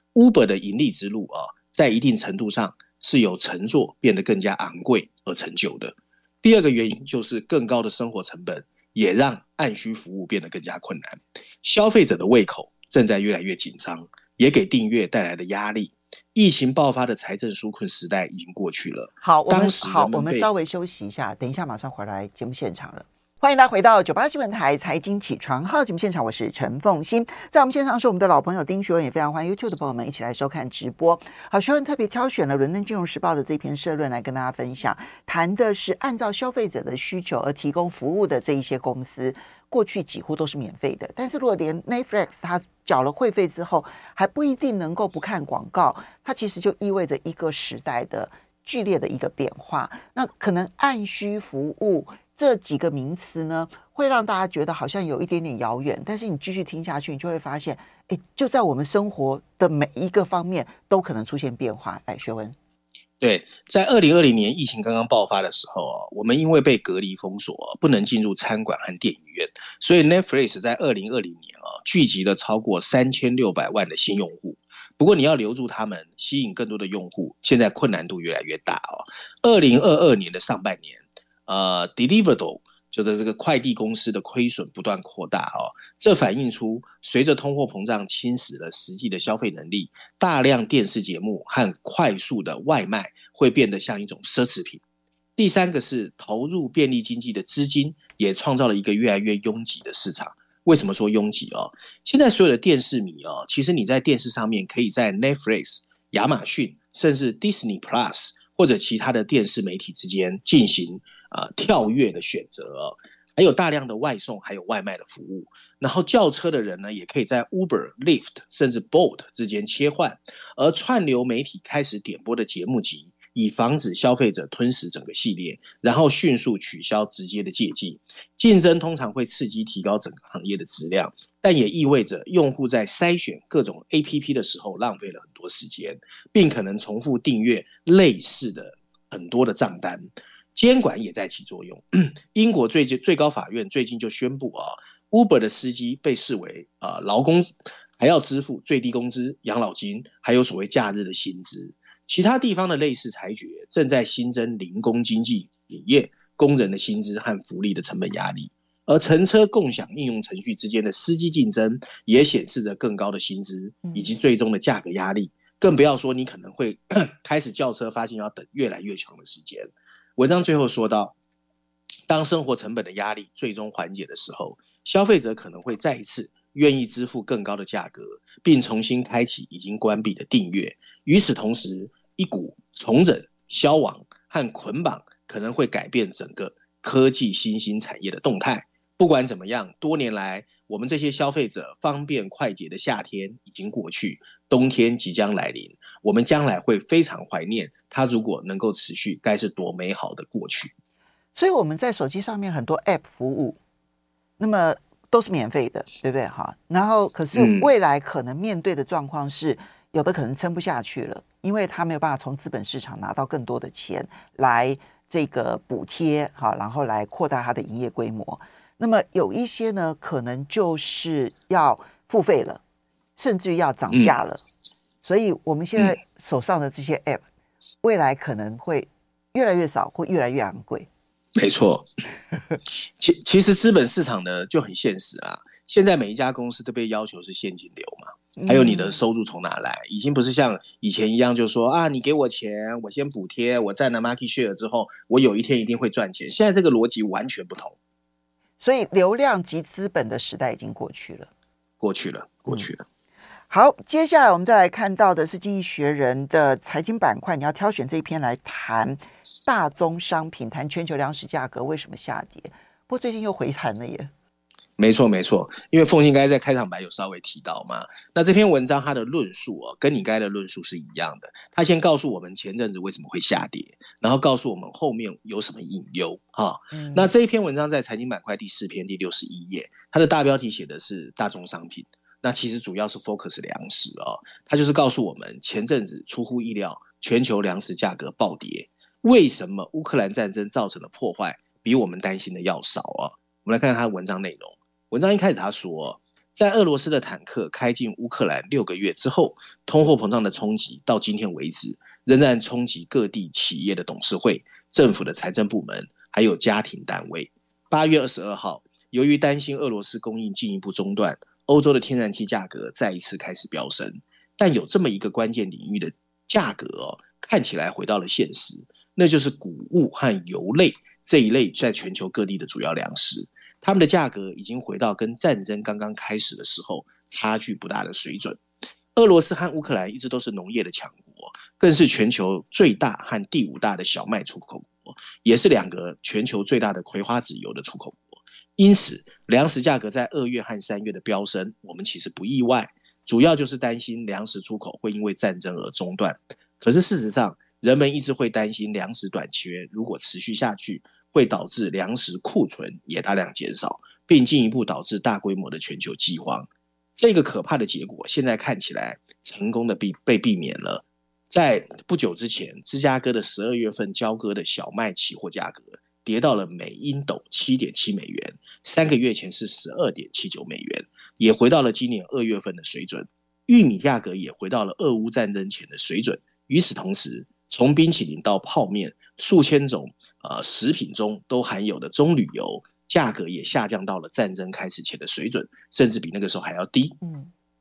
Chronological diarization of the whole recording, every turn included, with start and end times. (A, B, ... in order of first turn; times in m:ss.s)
0:00.2-0:20.5 A
0:19.2-1:02.6 B
1:03.2-1:34.8 A
1:35.4-2:51.2 A
2:52.1-3:20.7 A
3:21.4-3:23.6 B
3:24.4-3:42.6 B
3:27.3-3:27.7 A
3:43.2-3:44.4 B
3:43.9-3:44.2 A
3:45.0-3:47.2 B
3:47.8-3:50.9 B
3:51.4-3:51.9 A
3:52.9-4:07.8 A
3:58.4-3:59.0 B
4:08.6-4:11.3 B
4:11.8-4:12.9 A
4:13.5-4:24.1 B
4:24.8-5:28.4 A
4:36.7-4:37.1 B
5:29.0-6:27.0 A
6:27.0-6:27.3 B